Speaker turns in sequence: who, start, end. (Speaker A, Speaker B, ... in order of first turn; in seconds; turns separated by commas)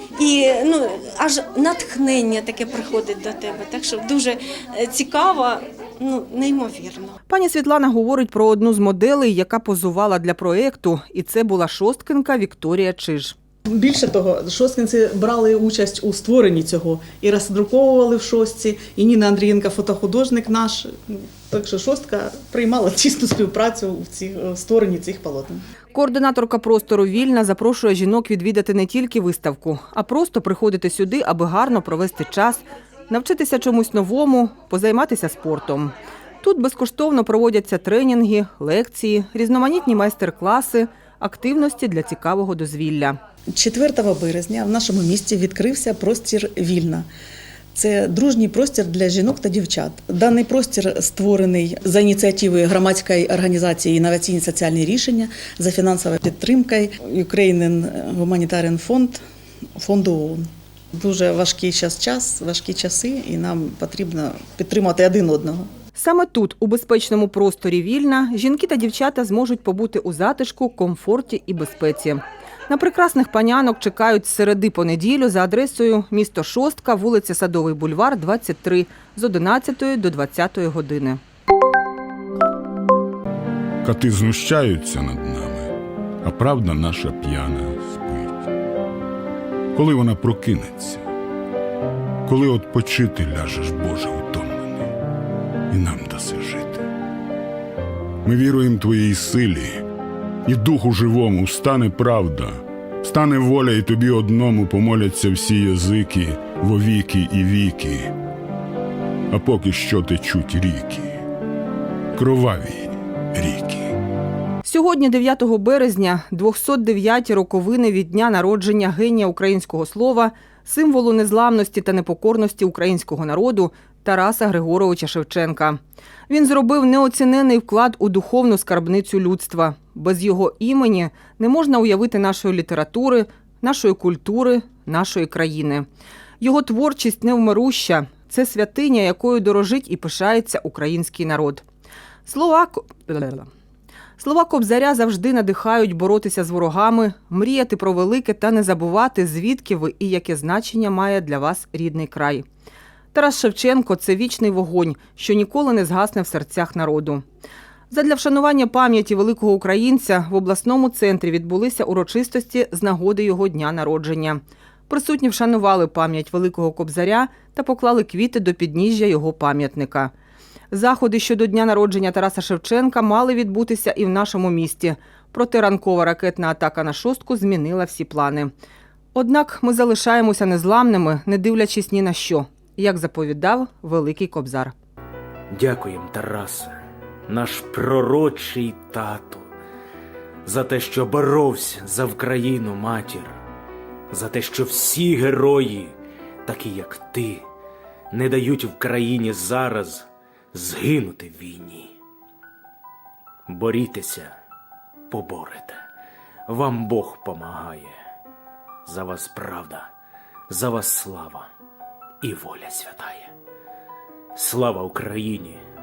Speaker A: 0.2-7.2, Speaker B: 7.3-13.3, Speaker C: 13.7-25.6, Speaker B: 25.9-43.2, Speaker C: 43.5-47.1, Speaker C: 47.8-59.2, Speaker C: 59.8-60.4, Speaker C: 61.0-65.7, Speaker B: 66.0-81.2, Speaker D: 83.8-85.7, Speaker D: 86.2-88.4, Speaker D: 89.8-91.0, Speaker D: 92.3-94.9, Speaker D: 95.7-96.8, Speaker D: 98.2-99.7, Speaker D: 100.5-108.1, Speaker D: 109.3-111.2, Speaker D: 112.2-113.9, Speaker B: 114.7-125.8, Speaker B: 126.3-135.8, Speaker B: 136.4-141.6, Speaker B: 142.3-143.5, Speaker B: 144.2-152.4, Speaker B: 153.1-157.2, Speaker B: 157.9-170.1, Speaker B: 170.7-178.5, Speaker B: 179.2-184.7, Speaker E: 185.5-186.7, Speaker E: 187.3-189.5, Speaker E: 190.4-193.3, Speaker E: 194.1-195.9, Speaker E: 196.4-197.4, Speaker E: 198.1-201.9, Speaker E: 203.5-204.3, Speaker E: 205.1-205.8, Speaker E: 206.5-207.9, Speaker E: 208.8-209.9, Speaker E: 210.5-211.4, Speaker E: 212.2-213.3, Speaker E: 214.3-215.6